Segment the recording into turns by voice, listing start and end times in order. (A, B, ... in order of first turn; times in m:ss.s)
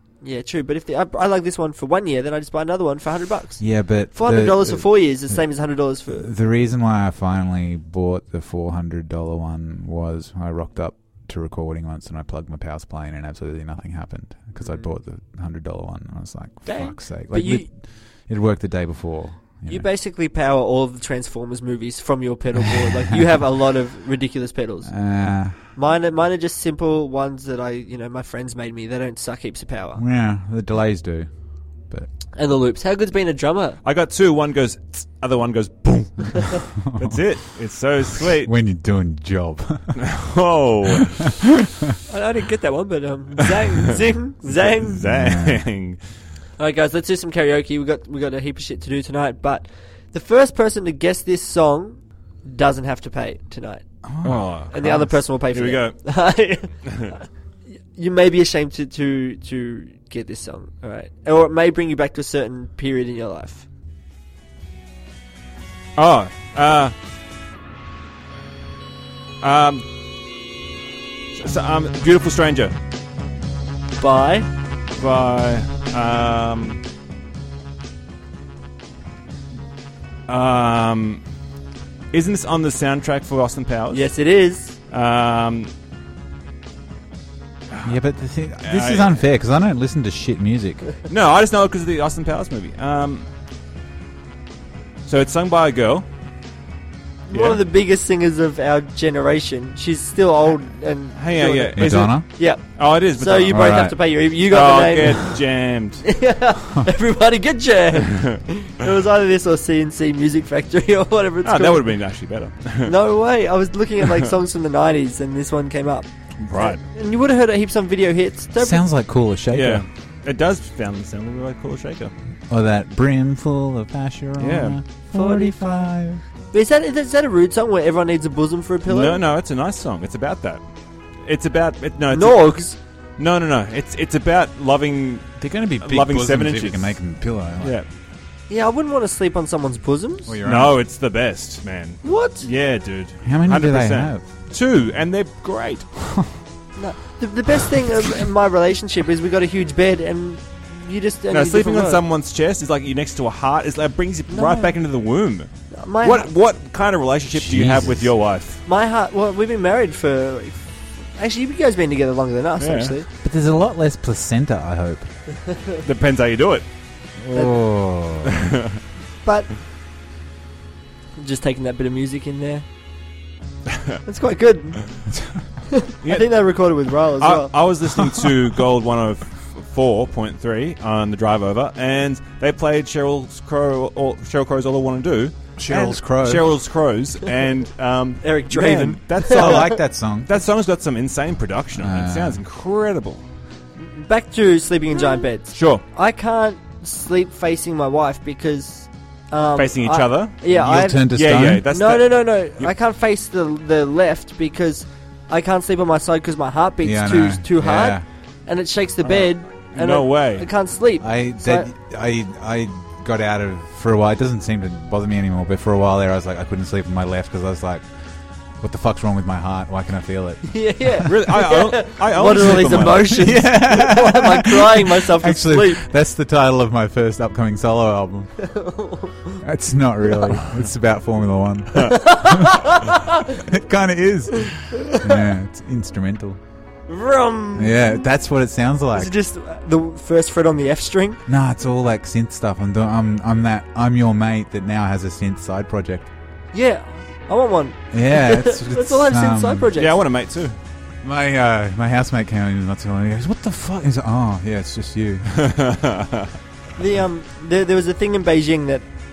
0:00.2-0:06.3 A
0:03.6-0:05.4 B
0:06.1-0:19.8 B
0:16.6-0:17.7 A
0:19.6-0:25.0 A
0:22.8-0:23.2 B
0:24.8-0:25.6 B
0:25.6-0:30.0 A
0:30.0-0:31.3 B
0:32.3-0:33.8 A
0:33.8-0:38.5 C
0:36.9-0:37.2 B
0:38.2-0:40.1 B
0:40.0-0:41.2 C
0:42.1-0:45.0 A
0:44.4-0:46.0 C
0:45.0-0:45.6 B
0:46.6-0:53.8 A
0:54.0-0:55.2 B
0:54.2-0:56.0 C
0:54.7-0:57.2 A
0:56.8-0:57.1 C
0:57.9-1:03.6 A
1:06.0-1:06.9 C
1:09.4-1:09.8 C
1:11.3-1:12.7 C
1:14.0-1:14.5 A
1:15.0-1:16.8 C
1:20.3-1:21.2 C
1:22.1-1:24.1 C
1:23.9-1:24.8 A
1:24.9-1:25.7 C
1:27.8-1:30.8 B
1:28.6-1:29.2 C
1:31.1-1:33.3 C
1:35.0-1:36.0 C
1:37.3-1:45.4 A
1:37.3-1:37.6 C
1:41.2-1:46.0 C
1:41.8-1:42.2 B
1:43.5-1:43.9 B
1:46.0-1:52.0 A
1:51.4-1:53.0 C
1:52.8-1:58.8 A
1:56.4-1:56.8 C
1:58.6-1:59.8 B
1:59.5-2:02.1 C
2:02.5-2:06.2 B
2:04.4-2:04.8 C
2:05.1-2:05.9 A
2:06.5-2:09.2 A
2:08.8-2:10.6 C
2:11.2-2:12.6 C
2:12.1-2:12.8 A
2:13.2-2:17.0 C
2:15.4-2:17.8 B
2:17.6-2:17.9 C
2:18.5-2:20.4 A
2:20.2-2:20.8 B
2:20.4-2:25.9 C
2:22.0-2:22.5 A
2:23.2-2:24.2 B
2:26.8-2:32.0 A
2:31.3-2:35.5 C
2:34.3-2:34.8 A
2:35.7-2:36.3 A
2:36.0-2:38.6 C
2:37.3-2:38.1 B
2:38.6-2:43.1 A
2:42.6-2:42.9 C
2:43.2-2:45.1 B
2:45.8-2:46.6 C
2:47.2-2:48.4 B
2:48.2-2:48.8 C
2:49.2-2:49.5 A
2:51.2-2:52.6 A
2:54.0-2:54.8 A
2:55.7-2:57.6 A
2:56.0-2:56.5 C
2:57.2-3:13.2 C
2:58.0-2:58.3 B
3:05.6-3:06.6 B
3:08.2-3:09.6 A
3:09.3-3:10.4 B
3:11.7-3:12.4 B
3:13.8-3:21.1 A
3:15.5-3:15.8 C
3:19.6-3:20.4 C
3:20.5-3:21.7 B
3:21.1-3:22.7 C
3:21.7-3:31.7 A
3:26.8-3:28.0 B
3:29.0-3:30.5 C
3:31.0-3:37.9 B
3:38.6-3:41.0 B
3:40.5-3:45.9 A
3:41.0-3:43.3 C
3:42.9-3:48.3 B
3:48.4-3:49.4 A
3:49.4-3:56.4 B
3:51.8-3:53.1 A
3:56.9-3:58.0 A
3:57.6-3:59.1 B
3:58.9-4:01.2 A
4:01.3-4:06.1 B
4:06.5-4:10.0 A
4:07.9-4:09.7 B
4:09.8-4:10.6 C
4:11.0-4:15.4 B
4:15.3-4:16.3 C
4:16.8-4:18.8 A